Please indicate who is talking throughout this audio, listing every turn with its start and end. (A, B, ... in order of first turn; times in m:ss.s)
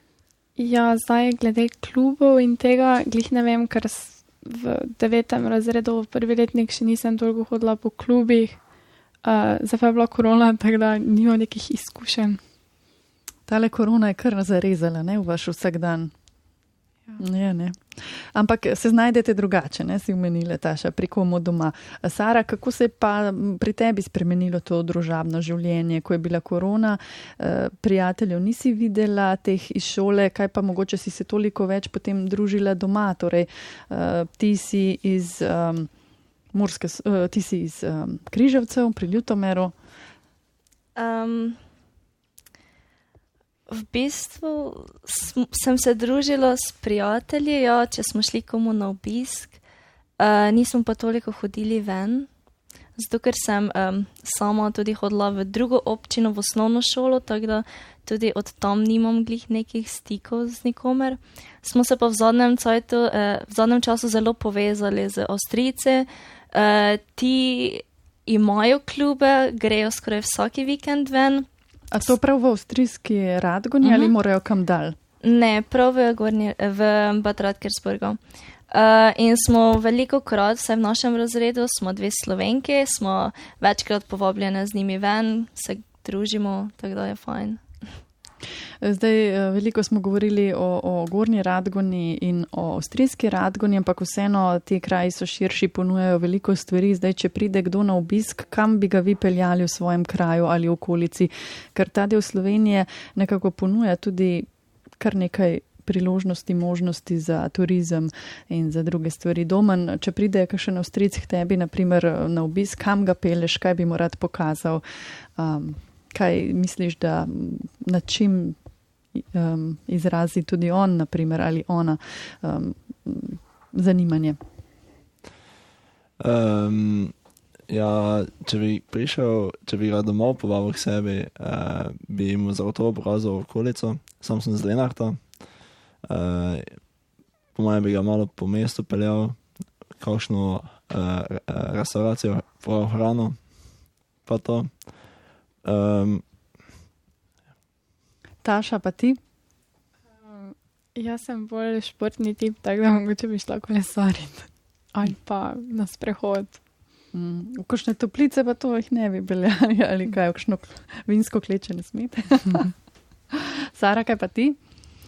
0:00.6-0:08.6 A
0:09.2-0:12.4 A
0:13.5-0:16.1 B
0:17.2-0:35.9 B
0:36.5-0:39.7 B
0:41.0-0:41.6 C
0:43.7-0:49.6 C
0:50.2-0:52.3 C
0:53.0-1:11.5 C
1:11.9-1:15.0 B
1:13.8-1:14.1 C
1:15.2-1:18.2 C
1:18.7-1:27.6 C
1:28.8-1:54.8 B
1:55.4-1:58.6 B
1:59.1-2:04.4 B
2:06.2-2:07.1 D
2:07.7-2:15.2 D
2:16.0-2:16.7 D
2:17.5-2:19.4 D
2:20.0-2:23.4 D
2:24.2-2:24.7 D
2:25.6-2:26.2 D
2:28.4-2:29.2 B
2:30.2-2:36.6 A
2:37.1-2:42.7 B
2:43.3-2:44.6 B